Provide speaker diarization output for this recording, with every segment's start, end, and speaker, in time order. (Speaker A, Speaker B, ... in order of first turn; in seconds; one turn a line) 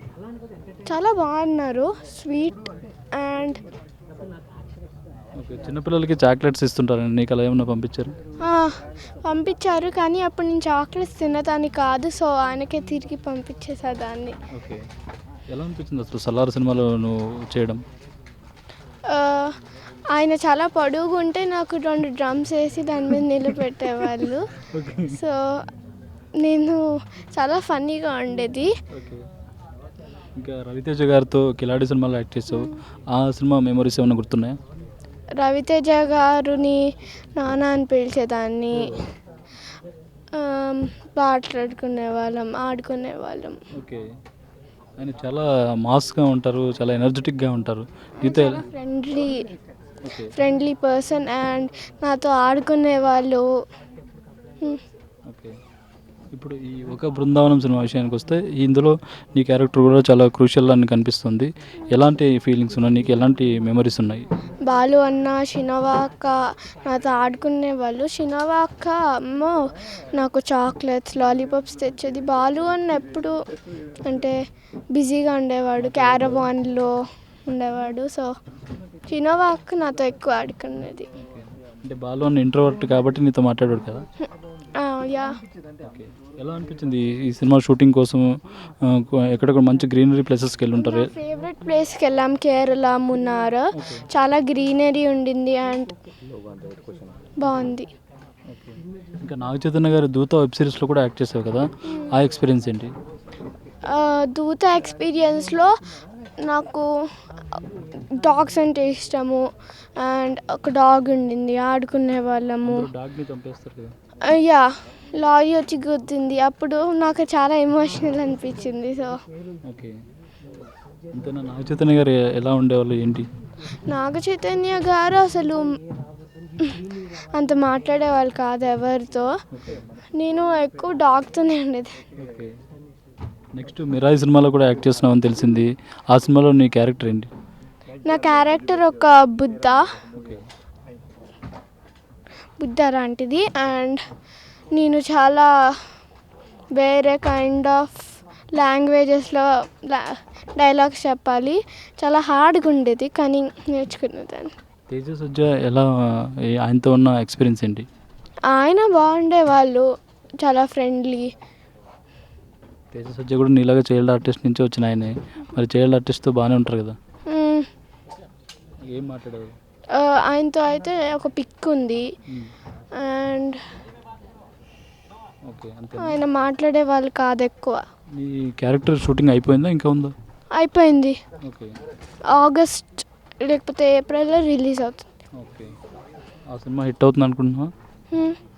Speaker A: 0.9-2.6
Speaker A: 3.2-3.6
Speaker B: 5.4-8.2
Speaker A: 8.4-14.4
Speaker B: 14.5-14.9
Speaker B: 15.5-17.8
Speaker A: 19.1-19.6
Speaker A: 20.1-24.5
Speaker B: 24.6-25.2
Speaker A: 25.1-25.6
Speaker A: 26.4-28.7
Speaker B: 28.9-29.3
Speaker B: 30.4-34.6
Speaker A: 32.5-32.8
Speaker A: 35.4-38.8
Speaker A: 40.4-43.6
Speaker B: 43.8-44.1
Speaker B: 45.0-48.6
Speaker A: 48.2-49.5
Speaker B: 50.0-50.3
Speaker A: 50.3-53.5
Speaker B: 55.3-55.6
Speaker B: 56.3-64.2
Speaker A: 64.7-69.6
Speaker A: 70.1-73.3
Speaker A: 74.1-74.4
Speaker A: 74.9-78.3
Speaker B: 75.8-76.5
Speaker A: 79.1-81.1
Speaker B: 81.2-84.0
Speaker A: 84.8-85.4
Speaker B: 85.8-88.3
Speaker B: 88.8-91.1
Speaker A: 90.8-95.9
Speaker B: 93.8-94.0
Speaker A: 97.4-97.9
Speaker B: 98.5-102.9
Speaker A: 103.9-105.8
Speaker A: 106.4-106.9
Speaker A: 107.5-109.5
Speaker A: 110.0-112.9
Speaker B: 112.7-113.9
Speaker A: 114.2-119.2
Speaker B: 119.7-120.0
Speaker B: 121.1-123.3
Speaker A: 123.9-125.7
Speaker A: 126.6-129.3
Speaker B: 129.5-129.9
Speaker A: 130.2-132.0
Speaker B: 132.2-132.6
Speaker B: 133.6-137.3
Speaker A: 138.0-139.9
Speaker B: 140.1-140.4
Speaker A: 142.6-144.0
Speaker A: 144.7-145.9
Speaker A: 146.8-154.5
Speaker B: 154.9-157.9
Speaker A: 158.5-159.9
Speaker A: 160.4-161.3
Speaker B: 162.9-167.0
Speaker A: 167.3-167.7
Speaker B: 168.9-169.5
Speaker A: 169.9-172.1
Speaker A: 172.9-173.6
Speaker B: 175.4-176.2
Speaker A: 176.0-177.8
Speaker B: 178.1-180.1
Speaker A: 180.5-181.2
Speaker B: 181.4-181.8
Speaker A: 182.3-185.1
Speaker B: 185.4-185.8
Speaker B: 186.5-187.7
Speaker A: 188.1-188.4